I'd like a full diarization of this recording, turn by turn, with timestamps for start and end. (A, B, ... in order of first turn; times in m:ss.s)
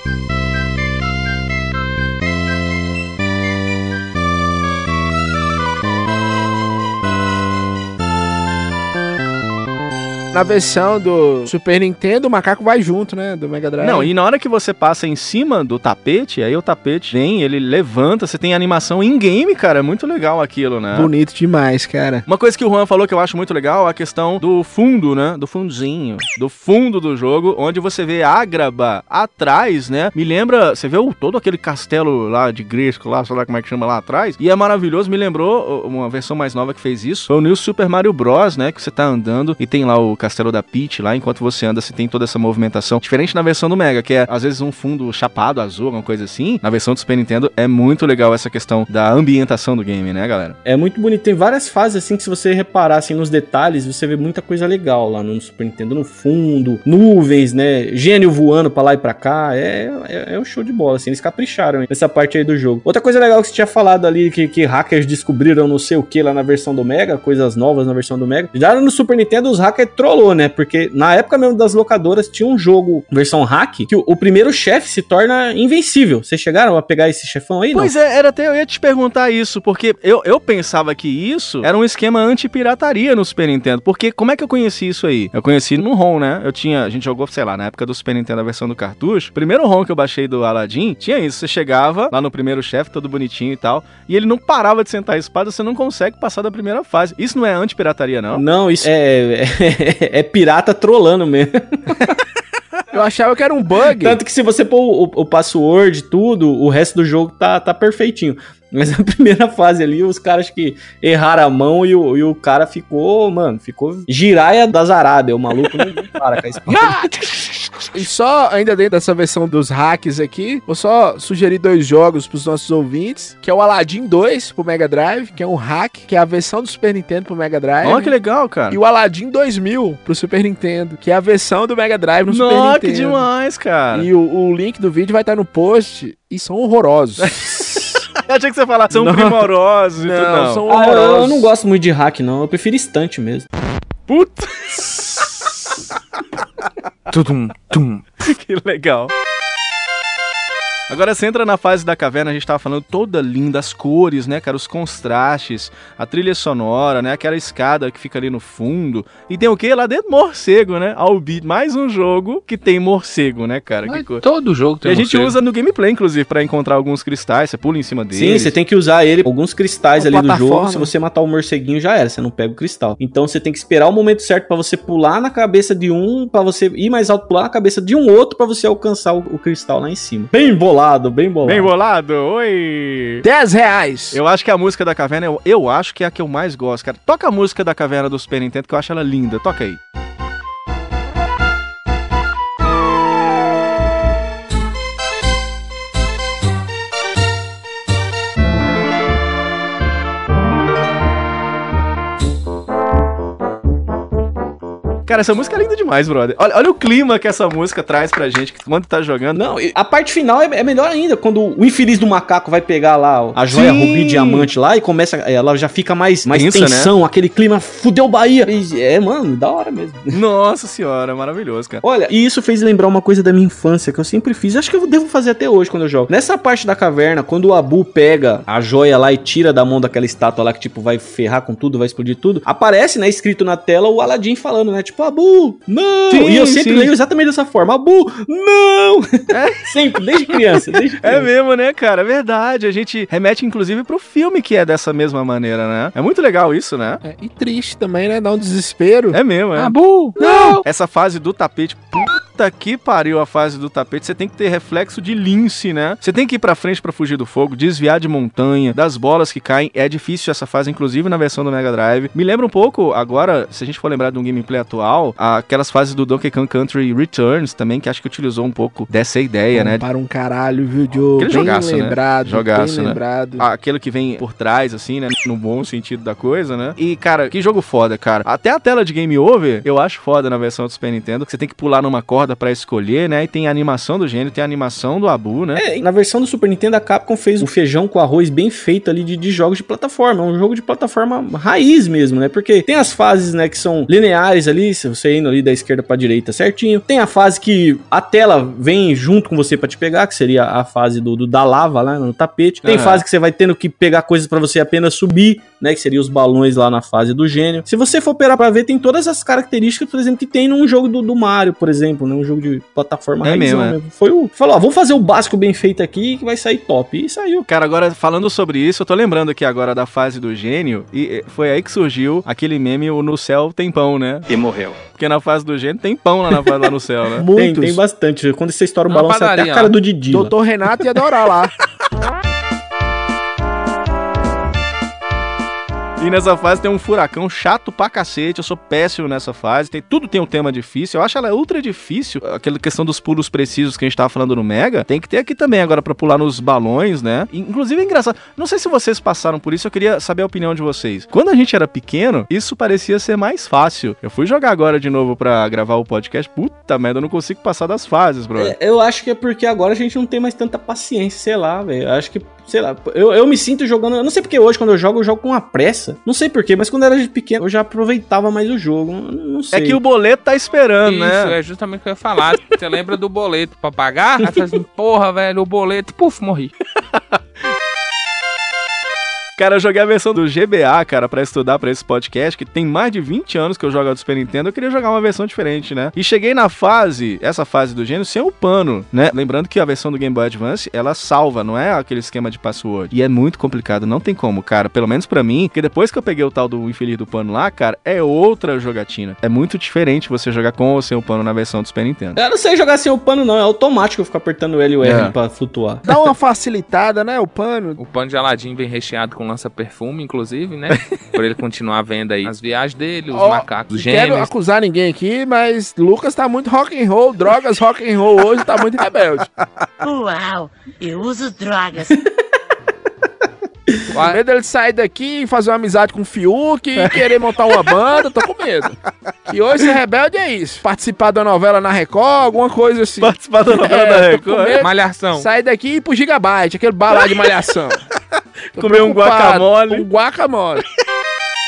0:10.3-0:14.1 A
0:13.8-0:21.1 B
0:20.9-0:22.2 A
0:22.2-0:50.6 B
0:50.6-1:17.9 C
1:17.7-1:38.4 B
1:38.3-1:42.0 C
1:42.9-1:44.2 A
1:43.9-1:56.9 C
1:57.2-1:57.5 D
1:57.9-2:08.1 A
2:07.8-2:08.8 B
2:08.7-2:13.2 A
2:12.3-2:14.1 B
2:13.9-2:18.0 A
2:17.2-2:20.6 B
2:18.9-2:21.5 A
2:20.7-2:23.5 C
2:24.1-2:25.3 B
2:27.1-2:28.0 D
2:28.2-2:29.1 B
2:30.9-2:44.2 B
2:43.8-2:45.3 D
2:44.8-2:48.5 B
2:48.1-3:01.7 C
2:49.9-2:50.9 A
3:01.4-3:03.2 B
3:03.2-3:04.2 A
3:04.1-3:09.8 B
3:25.0-3:29.4 B
3:29.3-3:40.2 C
3:33.5-3:34.5 B
3:36.3-3:36.9 B
3:40.1-3:41.8 B
3:41.8-4:01.3 C
3:56.1-3:56.9 B
3:59.3-3:59.7 B
4:00.5-4:07.0 B
4:07.0-4:09.2 A
4:09.1-4:29.8 B
4:09.6-4:10.6 D
4:29.5-4:33.4 A
4:31.2-4:45.6 B
4:45.5-5:17.4 C
5:02.6-5:03.0 B
5:13.2-5:13.8 B
5:17.5-5:24.2 B
5:24.9-5:27.3 B
5:27.2-5:27.8 A
5:27.3-5:30.3 C
5:28.9-5:29.8 D
5:30.1-5:31.5 A
5:36.0-5:58.5 B
5:58.4-6:09.8 C
6:09.5-6:11.4 B
6:10.8-6:16.5 D
6:19.4-6:42.2 B
6:42.2-6:45.8 C
6:44.8-6:45.1 B
6:45.8-6:47.8 A
6:47.8-6:54.3 D
6:53.1-6:59.3 A
6:59.8-7:01.8 E
7:03.9-7:04.2 D
7:03.9-7:08.8 A
7:06.8-7:07.1 B
7:09.3-7:17.8 A
7:13.0-7:14.6 B
7:14.6-7:15.3 D
7:18.6-7:19.9 B
7:18.6-7:20.6 A